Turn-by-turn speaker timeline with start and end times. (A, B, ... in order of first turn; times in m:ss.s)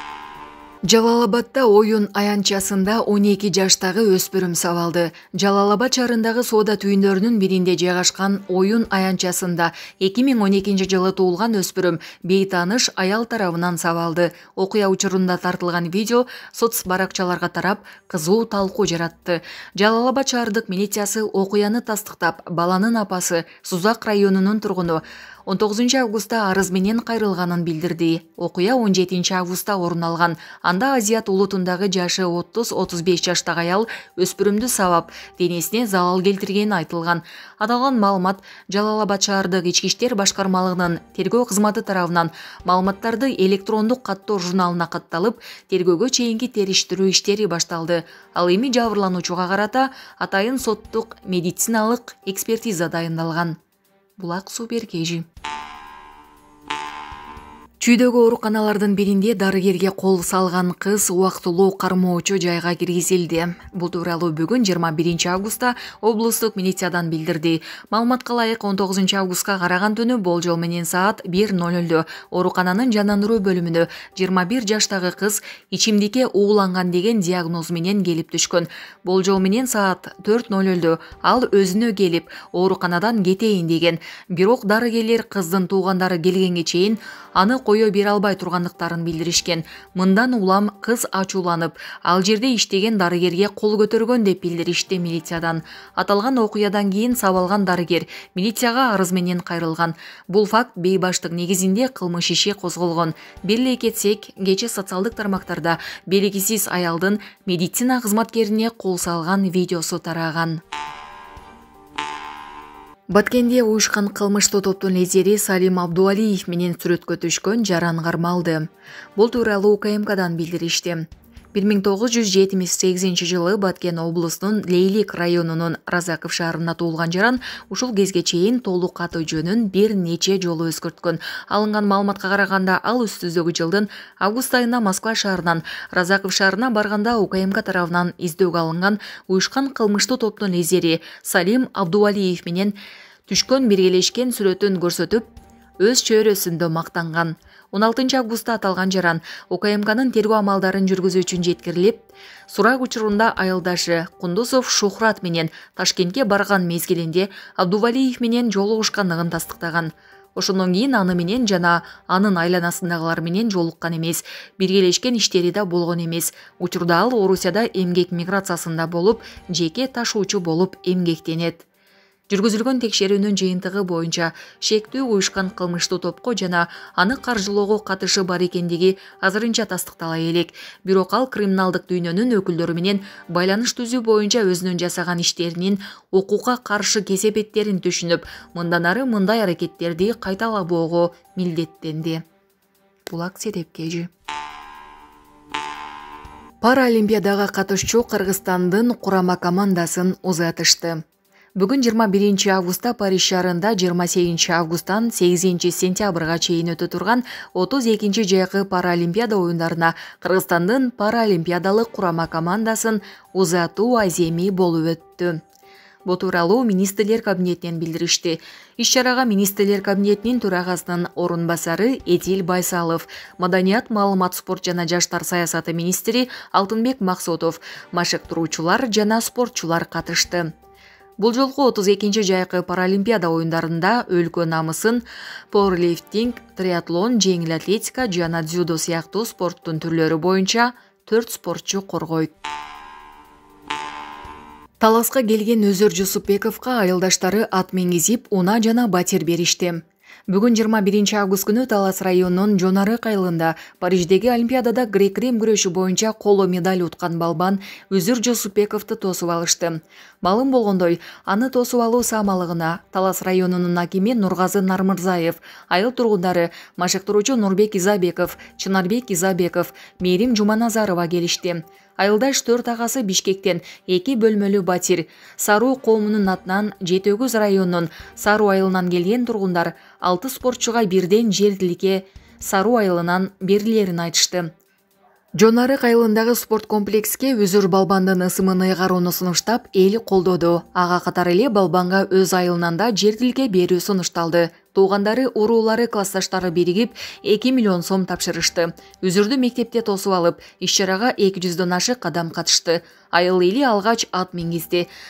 0:00.9-0:53.6 A
0:54.2-0:55.3 A
0:57.8-1:50.6 A
1:53.1-2:22.8 A
2:23.3-2:51.6 A
2:52.3-3:12.2 A
3:13.1-3:14.1 A
3:16.6-3:21.0 A
3:21.6-3:35.4 A
3:36.0-3:50.5 A
3:51.2-4:02.3 A
4:04.8-4:44.5 A
4:45.4-5:04.9 A